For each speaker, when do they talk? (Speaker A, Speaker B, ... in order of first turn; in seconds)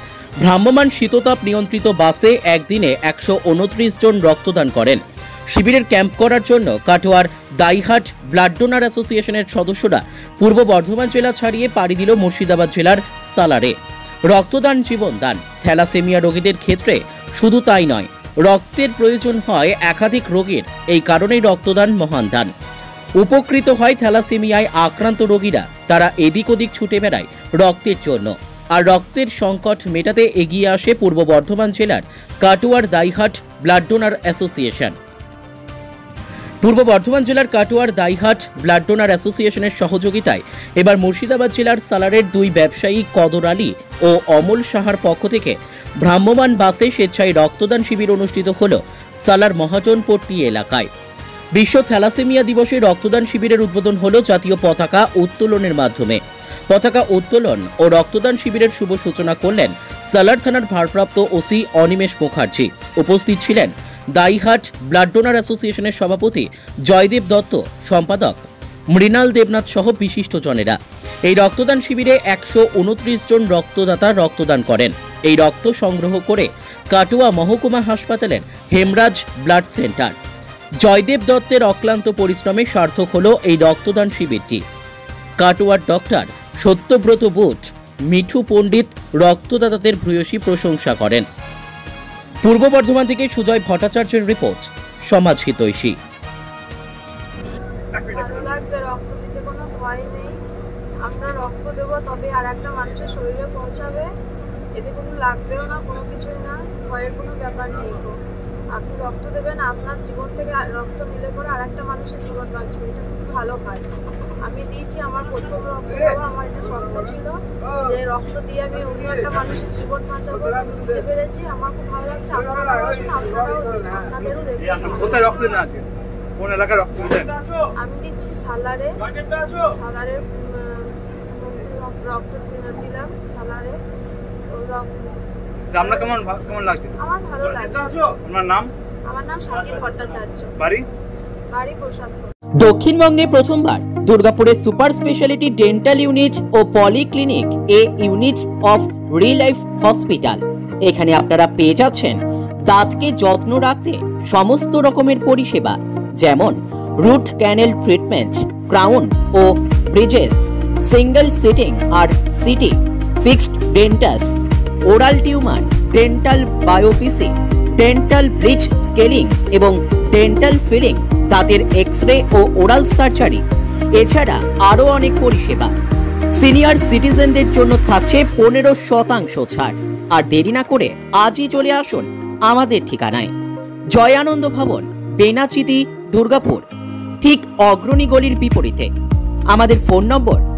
Speaker A: 0.4-13.8, 14.3-22.5, 23.2-35.0, 36.6-50.9, 51.5-80.2, 80.8-84.6, 85.4-91.3, 92.4-96.0, 142.6-175.7, 176.3-183.3, 183.9-186.7, 187.2-188.9, 189.5-190.4
Speaker B: 97.9-100.4, 101.0-104.1, 104.8-108.2, 108.7-125.3, 127.7-133.8, 134.5-136.3, 136.9-138.2, 139.1-140.6, 141.5-142.3
Speaker C: 125.2-127.4, 135.8-136.9, 138.2-138.7, 140.6-140.9